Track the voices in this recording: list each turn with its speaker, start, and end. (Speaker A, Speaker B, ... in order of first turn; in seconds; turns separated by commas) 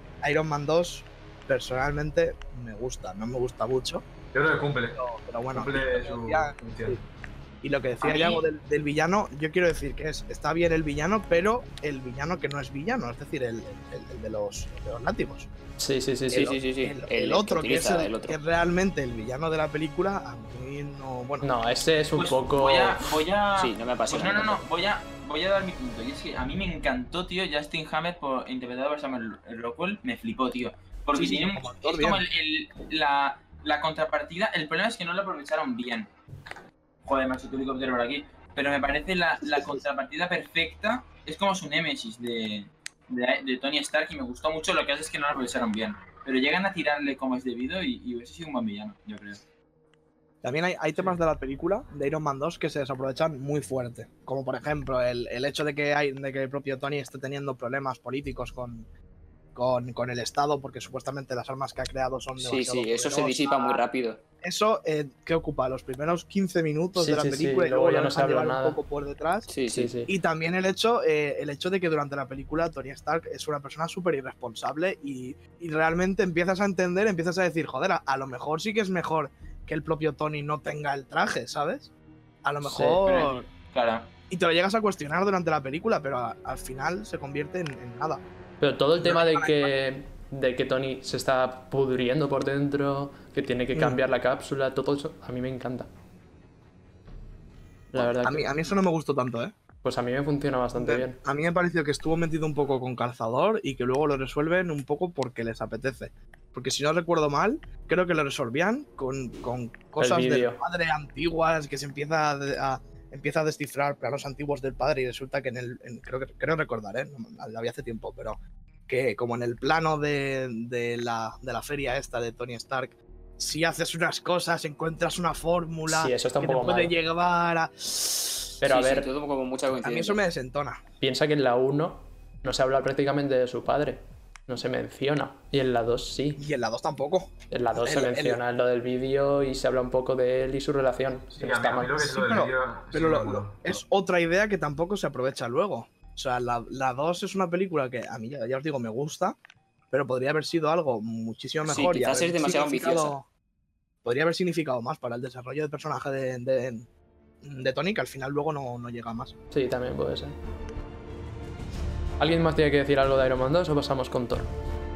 Speaker A: 0.2-4.0, Speaker B: 4.3-5.0, Speaker A: 4.9-7.0, Speaker B: 5.5-7.0, Speaker A: 7.6-15.5, Speaker C: 8.0-8.4, Speaker D: 15.8-16.6, Speaker A: 16.3-21.5, Speaker E: 16.4-18.4, Speaker D: 21.4-23.1, Speaker C: 22.2-36.1, Speaker E: 23.6-24.7, Speaker A: 31.2-32.2, Speaker C: 37.0-49.4, Speaker A: 39.5-39.8, Speaker A: 50.4-58.9, Speaker A: 59.5-63.8, Speaker E: 62.4-64.2, Speaker A: 64.4-69.5, Speaker D: 67.0-68.8, Speaker E: 69.5-70.0, Speaker D: 69.7-70.1, Speaker A: 70.1-81.9, Speaker A: 82.4-83.5, Speaker D: 82.6-83.0, Speaker C: 83.0-84.1, Speaker A: 84.3-88.2, Speaker D: 88.6-95.9, Speaker A: 89.0-89.7, Speaker A: 93.7-94.0, Speaker D: 97.9-98.5, Speaker A: 98.0-99.5, Speaker D: 99.8-101.2, Speaker A: 100.8-128.5, Speaker D: 110.0-110.6, Speaker D: 125.9-127.0, Speaker D: 128.6-129.1, Speaker E: 128.6-130.2, Speaker A: 129.7-130.8, Speaker D: 131.0-136.4, Speaker A: 136.4-138.4, Speaker D: 137.5-142.0, Speaker B: 141.3-143.8, Speaker A: 142.0-149.4, Speaker A: 149.9-153.3, Speaker E: 151.6-153.2, Speaker A: 154.0-156.9, Speaker A: 157.4-159.3, Speaker D: 159.5-160.4, Speaker D: 162.2-164.5